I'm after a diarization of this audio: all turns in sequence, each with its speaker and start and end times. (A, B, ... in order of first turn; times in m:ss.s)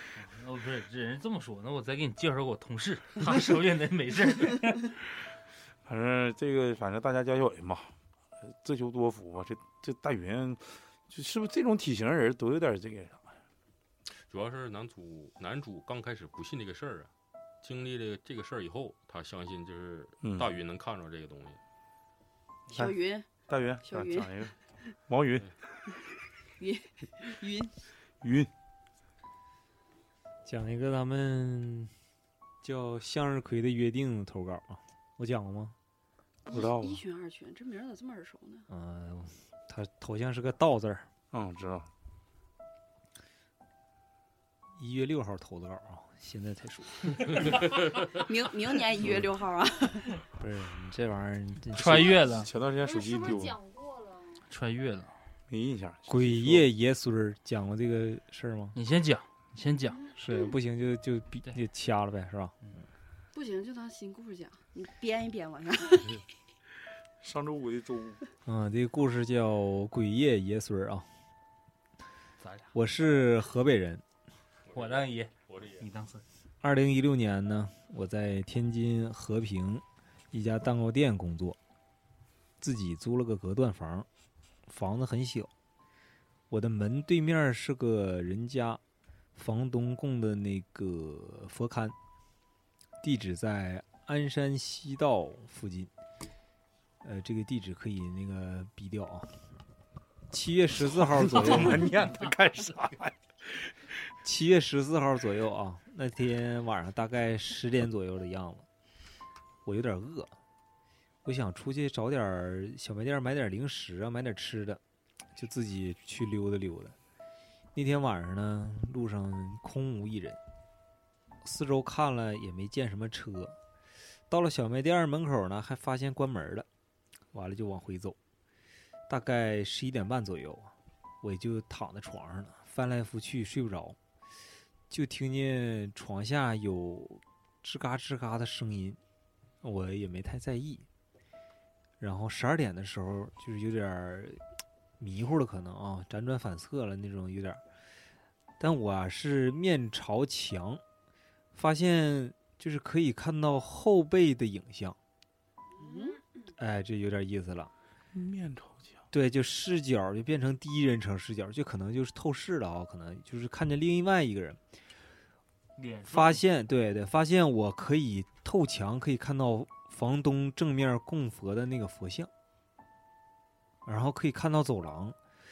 0:00.1-0:04.9 A
0:05.8-0:07.9 B
0:08.5-0:13.3 B
0:14.3-0:17.1 C
0:17.6-0:21.6 C
0:20.2-0:20.5 B
0:22.7-0:24.5 D
0:22.7-0:23.0 B
0:23.5-0:24.5 B
0:25.1-0:25.5 B
0:26.6-0:27.7 D
0:28.2-0:28.5 B
0:30.4-0:31.9 E
0:32.6-0:35.8 E
0:36.4-0:37.0 B
0:36.5-0:38.7 D
0:38.7-0:41.1 E
0:41.3-0:41.9 B
0:44.8-0:47.3 E
0:48.2-0:50.2 D
0:50.4-0:52.1 E
0:51.8-0:52.5 A
0:51.8-0:53.5 B
0:52.8-0:54.4 F
0:54.5-0:55.1 A
0:55.5-0:56.6 B
0:56.1-0:58.8 E
0:58.7-1:00.0 A
1:00.1-1:02.6 E
1:03.3-1:06.2 D
1:07.2-1:08.2 B
1:08.4-1:11.1 E
1:12.4-1:12.7 A
1:12.7-1:14.0 E
1:14.7-1:15.8 C
1:14.7-1:16.2 A
1:16.6-1:21.6 E
1:22.6-1:24.1 E
1:24.7-1:25.5 E
1:26.5-1:28.8 E
1:29.3-1:31.9 E
1:33.0-1:35.9 E
1:37.0-1:39.4 E
1:40.3-1:41.9 E
1:40.9-1:43.7 B
1:44.2-1:48.7 E
1:49.6-1:50.3 E
1:51.2-1:54.8 E
1:55.3-1:56.9 E
1:57.7-2:00.4 E
2:01.4-2:03.6 E
2:04.3-2:06.7 E
2:07.3-2:08.2 E
2:09.1-2:14.0 E
2:14.9-2:19.0 E
2:19.6-2:20.8 E
2:22.0-2:24.4 E
2:25.0-2:27.6 E
2:28.6-2:30.8 E
2:31.5-2:35.0 E
2:35.8-2:36.2 F
2:36.6-2:37.7 E
2:38.1-2:38.9 B
2:39.1-2:44.6 E
2:45.8-2:46.4 A
2:46.1-2:52.3 E
2:53.8-2:55.2 E